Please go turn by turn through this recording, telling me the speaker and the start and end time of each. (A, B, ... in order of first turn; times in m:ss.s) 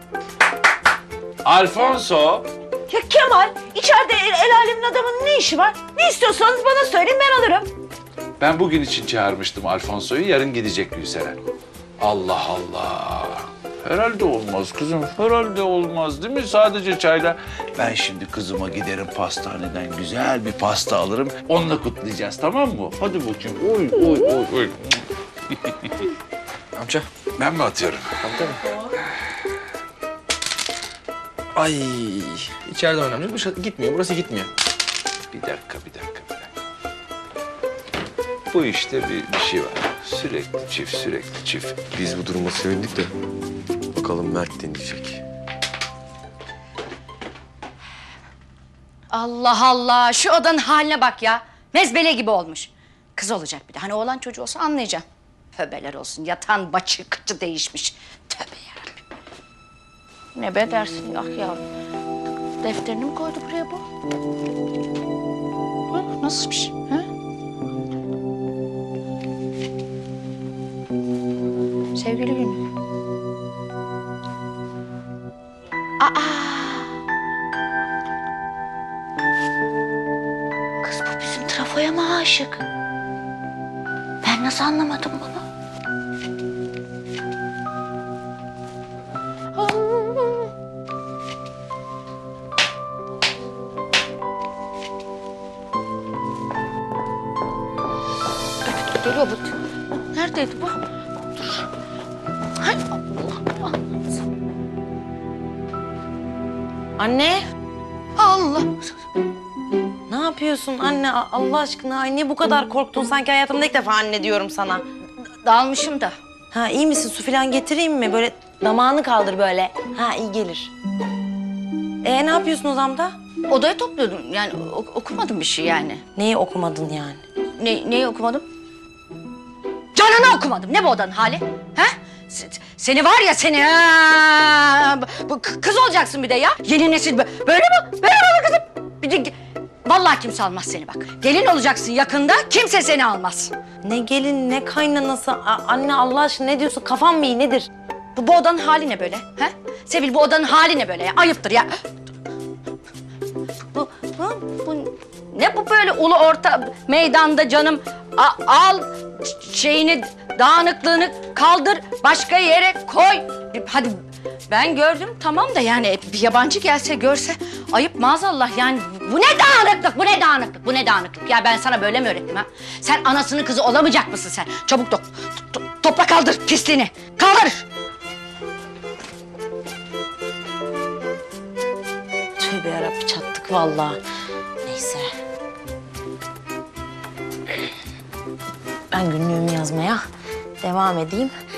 0:01.4-0:02.5 A
0:02.9-0:07.6 B
0:08.4-0:11.4 A
0:12.0-0:25.8 A
0:26.8-0:27.0 C
0:27.4-0:28.3 A
0:28.3-0:28.5 C
0:31.6-0:34.5 C
0:35.3-0:36.5 A
0:38.5-0:41.8 A
0:41.9-0:43.1 D
0:44.0-0:45.2 D
0:49.1-0:55.0 E
0:55.6-0:58.9 E
1:00.4-1:01.6 E
1:02.6-1:03.8 E
1:05.9-1:07.0 E
1:12.0-1:12.6 E
1:16.0-1:16.9 E
1:20.8-1:22.6 E
1:24.2-1:25.4 E
1:38.8-1:39.4 E
1:40.1-1:40.8 E
1:42.6-1:43.4 E
1:47.0-1:47.4 F
1:48.2-1:48.7 E
1:50.1-1:54.8 F
1:55.4-1:56.2 E
1:56.5-2:00.7 F
2:02.0-2:03.2 F
2:03.5-2:06.0 E
2:06.2-2:07.2 F
2:07.6-2:08.4 E
2:10.0-2:19.3 E
2:19.8-2:23.5 E
2:23.8-2:27.7 F
2:28.2-2:31.7 E
2:33.7-2:38.9 E
2:39.4-2:44.0 E
2:44.5-2:57.6 E
3:02.4-3:04.0 F
3:04.7-3:05.1 F
3:08.9-3:10.0 F
3:10.6-3:11.3 F